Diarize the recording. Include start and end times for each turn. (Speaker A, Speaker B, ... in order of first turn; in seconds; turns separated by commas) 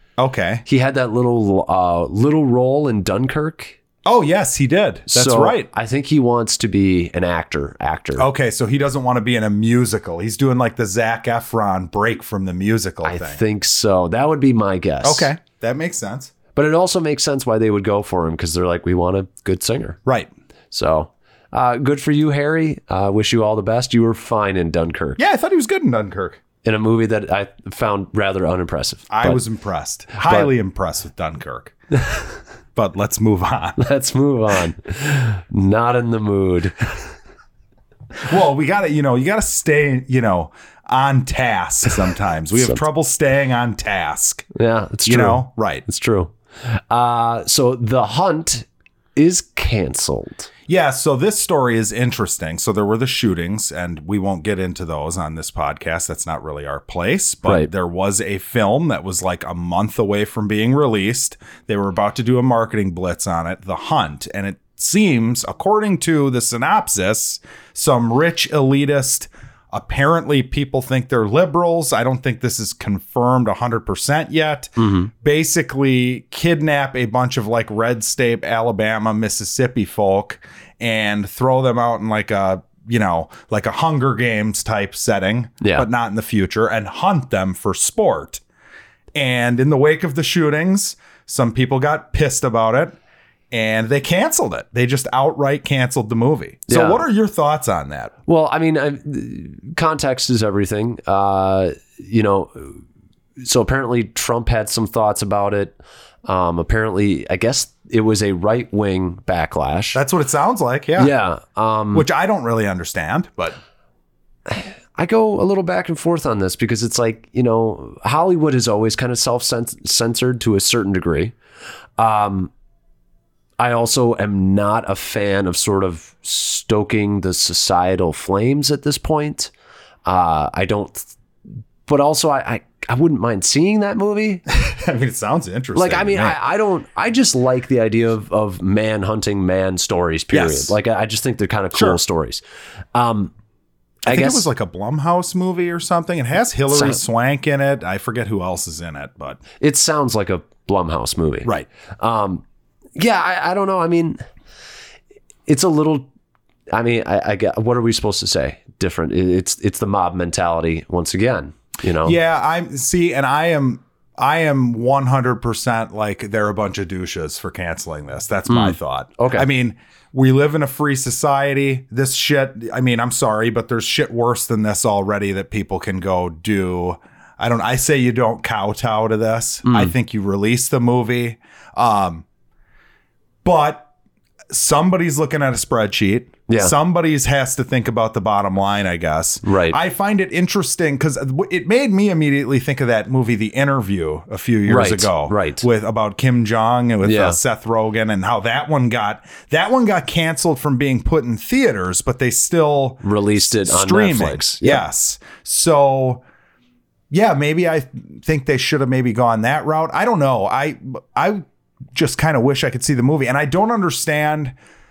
Speaker A: 0.2-0.6, Speaker B: 0.7-3.8, Speaker A: 4.0-5.7, Speaker B: 5.1-8.3, Speaker A: 8.1-13.4, Speaker B: 13.0-15.3, Speaker A: 15.0-16.3, Speaker B: 16.5-20.0, Speaker B: 20.7-25.2, Speaker A: 25.2-26.4, Speaker B: 26.6-29.4, Speaker A: 29.1-31.7, Speaker B: 30.2-30.5, Speaker A: 32.7-33.8, Speaker B: 33.8-36.9, Speaker A: 38.2-44.5, Speaker B: 44.5-50.5, Speaker A: 45.0-45.8, Speaker A: 50.7-88.4, Speaker B: 57.4-57.7, Speaker B: 74.8-75.1, Speaker B: 85.6-85.8, Speaker A: 89.1-93.0, Speaker A: 93.5-98.1, Speaker B: 96.7-97.0, Speaker B: 98.2-102.8, Speaker B: 103.4-110.0, Speaker A: 109.9-111.1, Speaker B: 111.0-112.0, Speaker A: 111.9-113.6, Speaker B: 114.5-121.3, Speaker B: 122.0-122.5, Speaker B: 123.6-129.5, Speaker B: 130.1-131.1, Speaker B: 131.8-134.4, Speaker A: 134.5-136.4, Speaker B: 135.7-142.4, Speaker A: 140.3-140.7, Speaker A: 141.7-142.0, Speaker B: 142.9-143.3, Speaker B: 144.1-144.5, Speaker A: 144.1-149.4, Speaker B: 146.7-147.0, Speaker B: 149.6-152.4, Speaker B: 153.0-154.2, Speaker B: 155.5-156.1, Speaker B: 156.7-162.2, Speaker A: 162.0-182.2, Speaker B: 168.5-169.4, Speaker B: 179.6-179.9, Speaker A: 183.4-183.9, Speaker A: 184.5-206.2, Speaker B: 186.5-186.7, Speaker B: 189.4-189.8, Speaker B: 194.7-195.6, Speaker B: 197.0-197.4, Speaker B: 203.0-204.8, Speaker A: 207.1-214.5